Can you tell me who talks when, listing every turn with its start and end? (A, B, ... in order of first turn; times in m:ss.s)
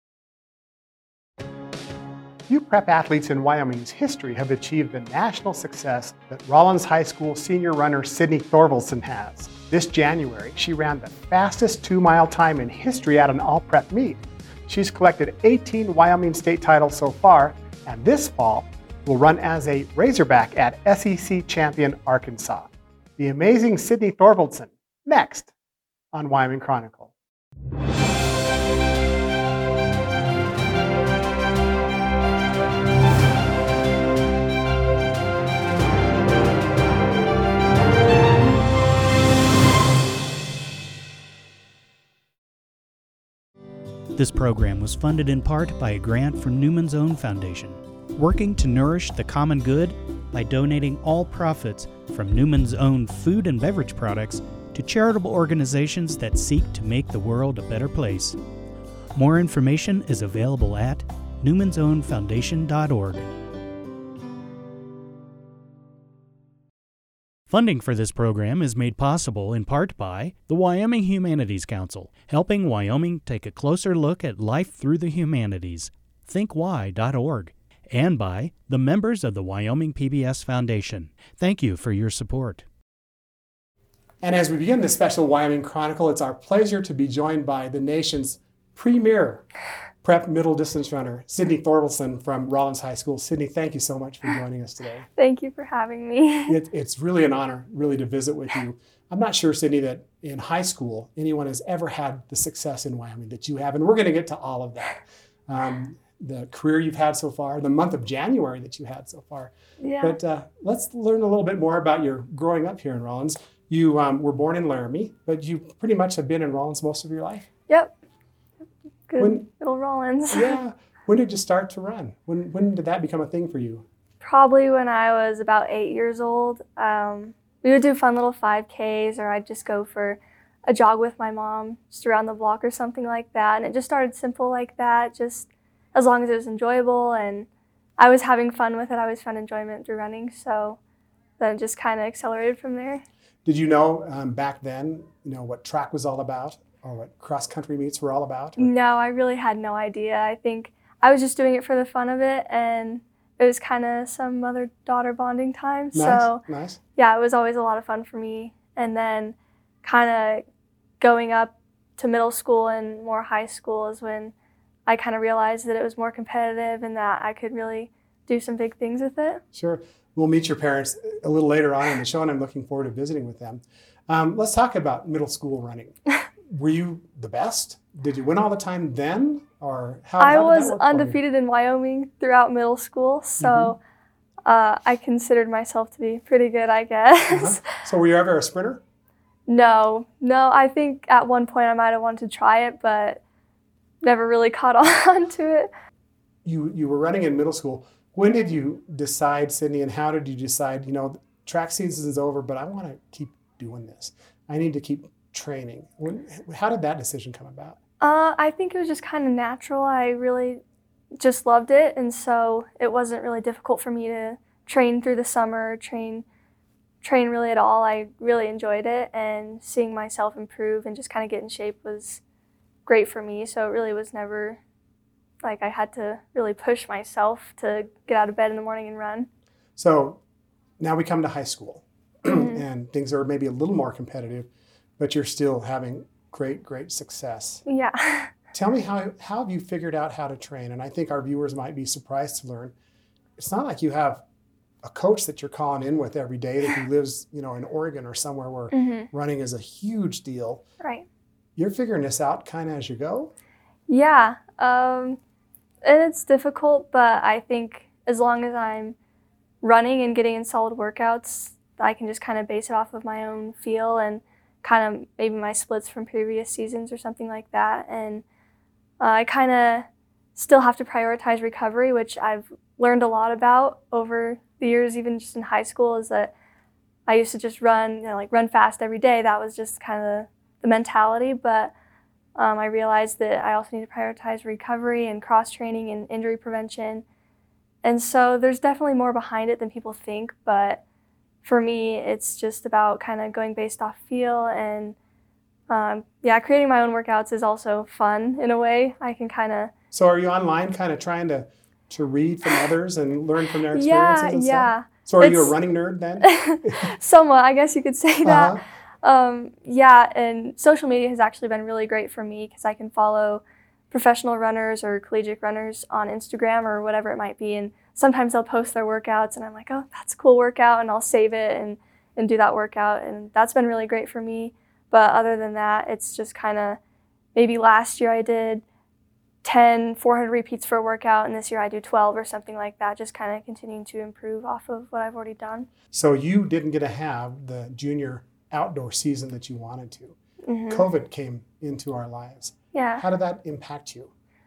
0:02.5-0:25.5 A
0:26.1-0:27.1 A
0:44.1-0:58.4 B
0:59.1-1:03.3 B
1:07.5-1:22.6 B
1:24.2-1:29.4 A
1:30.0-1:35.1 A
1:35.2-1:36.5 C
1:36.5-1:57.5 A
1:49.8-1:50.2 C
1:59.1-2:00.6 C
1:59.2-1:59.4 A
2:00.3-2:03.8 A
2:04.2-2:17.5 C
2:18.0-2:20.8 C
2:21.4-2:23.0 C
2:23.4-2:28.7 A
2:28.6-2:36.4 C
2:35.9-2:36.8 A
2:37.0-2:40.4 C
2:41.0-2:44.3 C
2:44.9-2:49.4 C
2:49.5-3:01.2 A
3:00.2-3:03.8 C
3:03.4-3:03.7 A
3:04.4-3:07.6 C
3:07.3-3:08.8 A
3:09.5-3:13.2 C
3:14.0-3:15.7 C
3:16.4-3:27.8 A
3:28.0-3:30.6 C
3:31.2-3:36.2 C
3:37.0-3:42.2 C
3:42.8-3:44.6 C
3:45.4-3:49.3 C
3:49.8-3:50.2 A
3:50.8-3:54.5 A
3:52.3-3:52.6 C
3:55.0-3:57.6 A
3:57.6-3:58.3 C
3:58.5-4:02.7 A
4:03.4-4:04.2 A
4:04.8-4:10.6 A
4:08.7-4:09.1 C
4:10.8-4:11.0 C
4:11.6-4:13.3 A
4:13.9-4:15.2 C
4:15.8-4:18.9 C
4:19.6-4:28.2 C
4:29.0-4:36.3 C
4:37.1-4:41.7 C
4:42.4-4:47.0 C
4:47.8-4:50.8 C
4:51.4-4:55.0 C
4:55.7-4:59.7 C
4:59.9-5:06.9 A
5:03.7-5:05.5 C
5:06.2-5:26.8 C
5:08.2-5:08.6 A
5:27.3-5:28.6 C
5:29.4-5:35.7 C
5:35.9-5:40.2 A
5:40.4-5:40.8 C
5:40.7-5:44.1 A
5:42.7-5:43.0 C